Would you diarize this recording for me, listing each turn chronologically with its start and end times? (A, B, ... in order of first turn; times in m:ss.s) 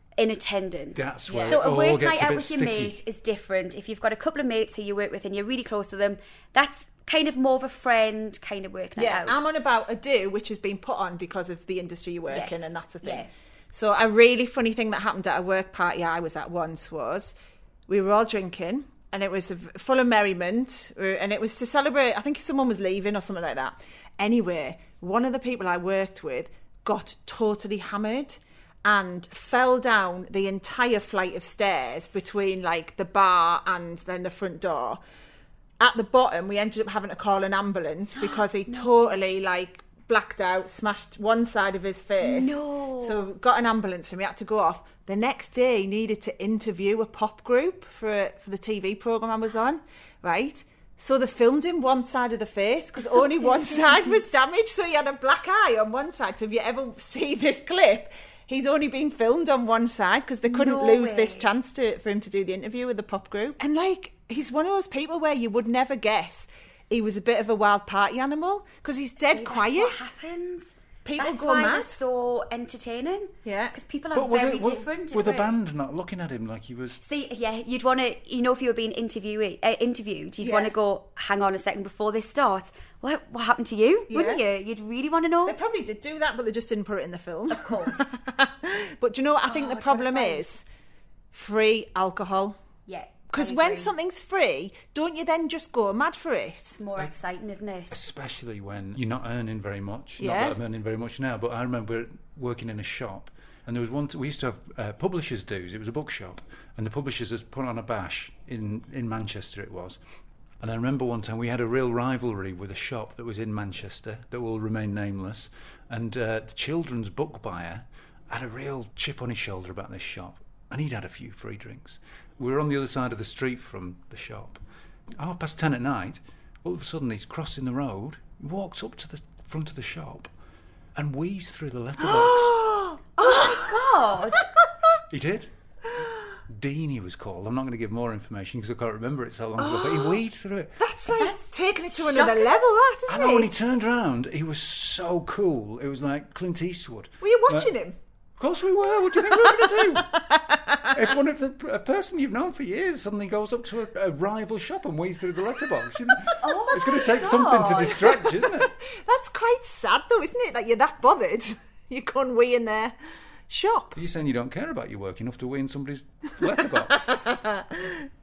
0:00.2-0:09.4 A
0:00.9-0:03.0 B
0:01.3-0:01.6 C
0:09.0-0:17.3 C
0:12.3-0:13.3 A
0:17.9-0:35.0 C
0:35.8-1:10.1 C
0:38.2-0:39.2 A
0:42.2-0:43.2 A
0:53.2-0:54.2 A
1:00.5-1:01.5 A
1:09.3-1:15.5 A
1:11.0-1:12.0 C
1:13.4-1:13.8 C
1:14.1-1:17.0 B
1:17.0-1:25.6 A
1:20.4-1:20.7 C
1:24.1-1:24.4 C
1:25.4-1:30.6 C
1:27.5-1:28.0 A
1:29.4-1:30.5 A
1:31.3-1:32.6 C
1:32.9-1:33.9 A
1:33.3-1:36.8 C
1:36.8-1:38.0 A
1:37.9-1:50.0 B
1:40.2-1:40.6 C
1:50.6-2:04.6 B
2:05.2-2:10.3 B
2:10.9-2:12.6 B
2:12.0-2:14.6 C
2:13.2-2:14.4 A
2:15.1-2:15.5 B
2:16.5-2:20.7 B
2:19.6-2:20.2 C
2:20.8-2:23.5 C
2:21.1-2:22.6 A
2:23.1-2:27.7 B
2:27.2-2:28.0 C
2:28.4-2:30.1 B
2:29.2-2:31.0 C
2:30.9-2:38.7 B
2:36.4-2:38.0 A
2:37.5-2:42.9 C
2:43.5-2:44.0 C
2:43.9-2:47.1 B
2:47.1-2:48.1 C